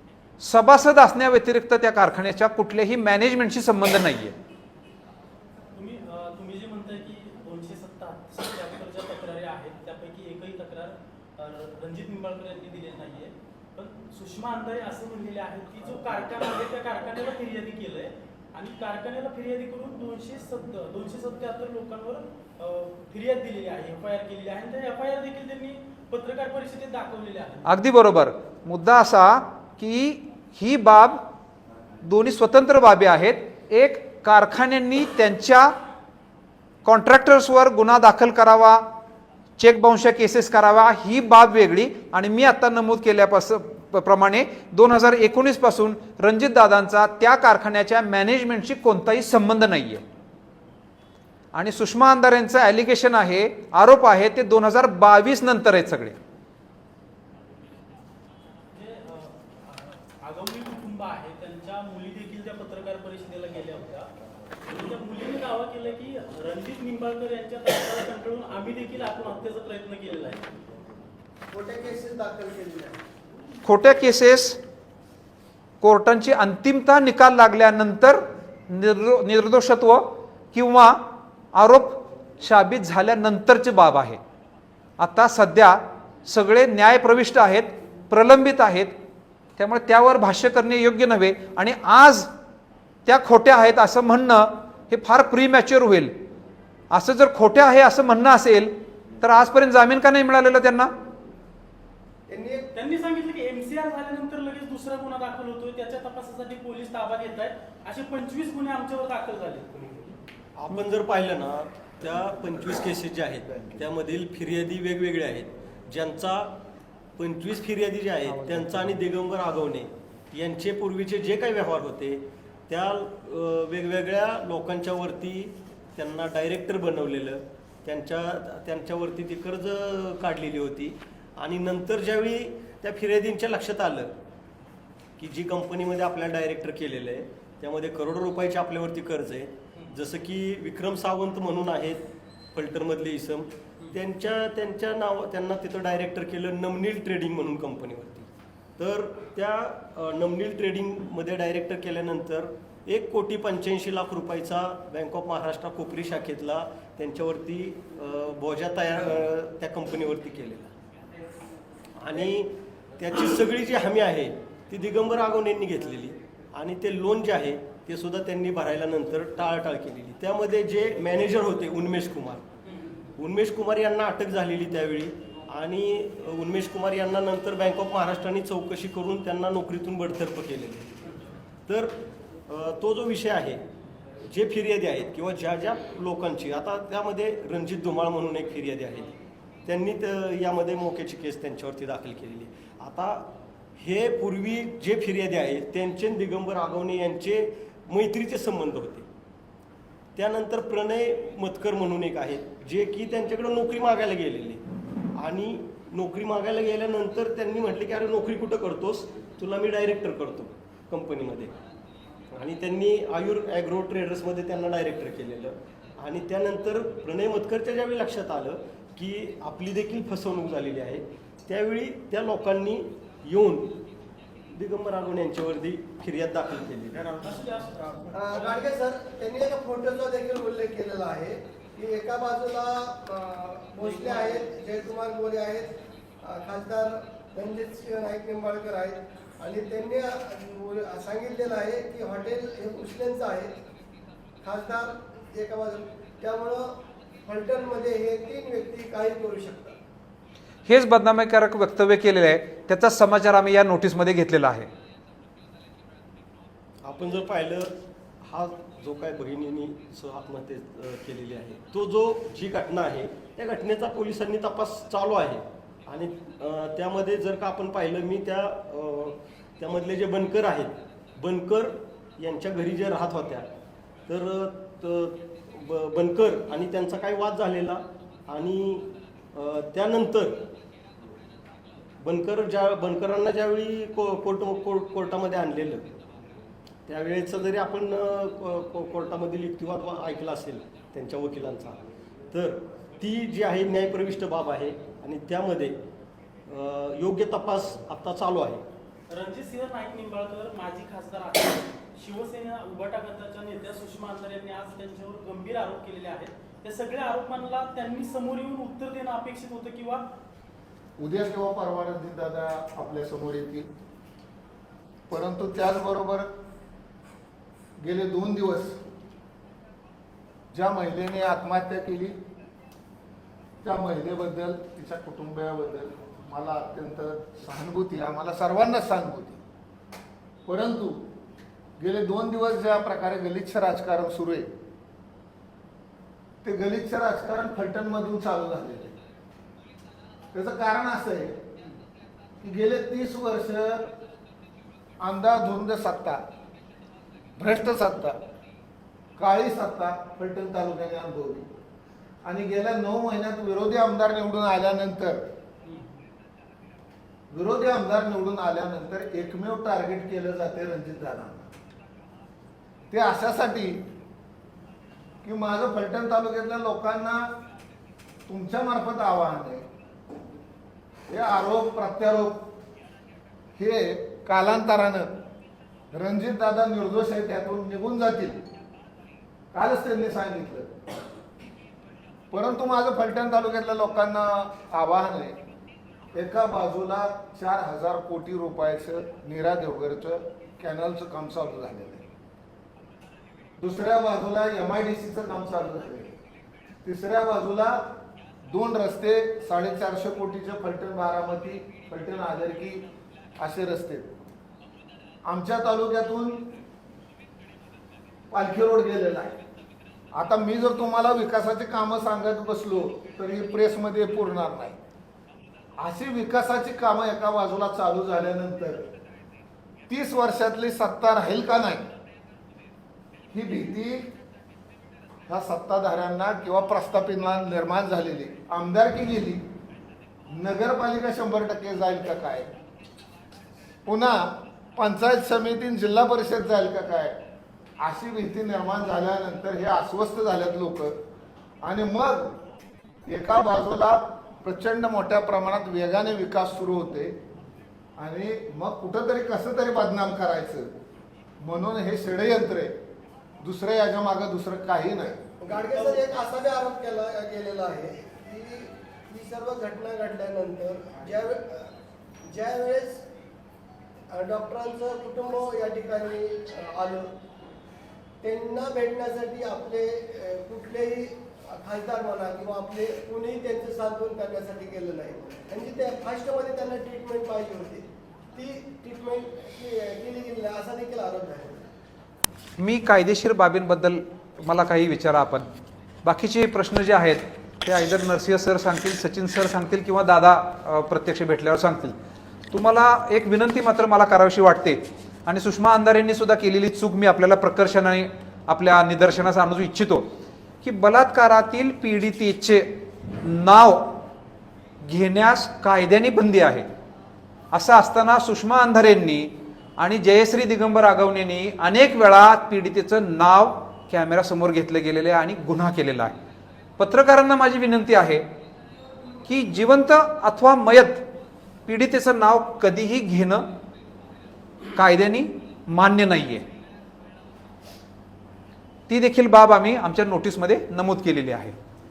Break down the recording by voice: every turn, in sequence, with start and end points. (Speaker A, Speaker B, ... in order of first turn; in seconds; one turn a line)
Speaker A: 0.4-4.3
Speaker B: 5.7-27.6
Speaker A: 27.6-31.2
Speaker A: 32.0-35.7
Speaker A: 36.8-38.9
Speaker A: 39.6-50.0
Speaker A: 51.5-56.1
Speaker B: 58.7-64.1
Speaker B: 64.6-70.5
Speaker C: 71.5-73.0
Speaker A: 73.6-74.6
Speaker A: 75.8-84.2
Speaker A: 85.0-88.9
Speaker A: 89.6-92.3
Speaker A: 93.0-96.1
Speaker A: 96.9-100.9
Speaker C: 102.3-102.7
Speaker B: 102.7-110.2
Speaker D: 110.5-116.6
Speaker D: 117.2-134.2
Speaker D: 135.2-160.7
Speaker D: 162.0-172.4
Speaker D: 173.2-181.0
Speaker D: 181.7-183.6
Speaker D: 184.3-189.1
Speaker D: 189.6-199.1
Speaker D: 200.2-211.5
Speaker D: 212.3-223.8
Speaker D: 224.5-227.2
Speaker B: 227.2-228.3
Speaker C: 228.1-243.5
Speaker B: 233.9-234.4
Speaker C: 244.4-249.8
Speaker A: 250.7-254.7
Speaker D: 256.8-273.5
Speaker D: 274.1-280.5
Speaker D: 282.0-285.9
Speaker D: 286.9-291.8
Speaker D: 292.3-295.8
Speaker D: 296.5-298.6
Speaker B: 299.1-310.1
Speaker E: 311.0-313.7
Speaker E: 315.1-316.3
Speaker E: 317.8-318.8
Speaker E: 320.5-322.1
Speaker E: 323.6-329.4
Speaker E: 330.5-331.0
Speaker E: 331.8-334.5
Speaker E: 336.4-339.0
Speaker E: 340.3-341.4
Speaker E: 342.4-343.9
Speaker E: 345.0-346.2
Speaker E: 347.4-348.2
Speaker E: 349.2-351.5
Speaker E: 352.2-355.3
Speaker B: 355.6-355.9
Speaker E: 357.3-361.5
Speaker E: 362.9-363.9
Speaker E: 365.2-367.3
Speaker E: 368.3-369.6
Speaker E: 371.1-372.5
Speaker E: 373.6-375.2
Speaker E: 375.9-378.4
Speaker E: 379.5-380.8
Speaker E: 382.3-385.4
Speaker E: 386.1-392.0
Speaker E: 393.6-396.1
Speaker E: 396.8-402.9
Speaker E: 403.4-404.1
Speaker E: 405.2-406.5
Speaker E: 408.3-409.4
Speaker E: 410.1-414.8
Speaker E: 415.8-418.9
Speaker E: 419.9-421.9
Speaker E: 423.3-424.1
Speaker E: 425.3-429.4
Speaker E: 430.3-432.5
Speaker E: 433.9-437.2
Speaker E: 437.8-441.0
Speaker E: 441.6-442.4
Speaker E: 443.1-447.2
Speaker E: 448.0-450.7
Speaker E: 451.4-452.8
Speaker E: 453.4-455.2
Speaker C: 455.4-461.7
Speaker C: 462.2-463.1
Speaker C: 464.1-467.1
Speaker C: 468.2-481.7
Speaker A: 482.6-485.4
Speaker A: 486.0-491.9
Speaker A: 492.5-500.1
Speaker A: 500.6-504.0
Speaker A: 504.8-506.6
Speaker A: 507.5-516.1
Speaker A: 516.8-518.2
Speaker A: 519.2-521.1
Speaker A: 521.6-523.5
Speaker A: 524.7-526.4
Speaker A: 528.9-531.5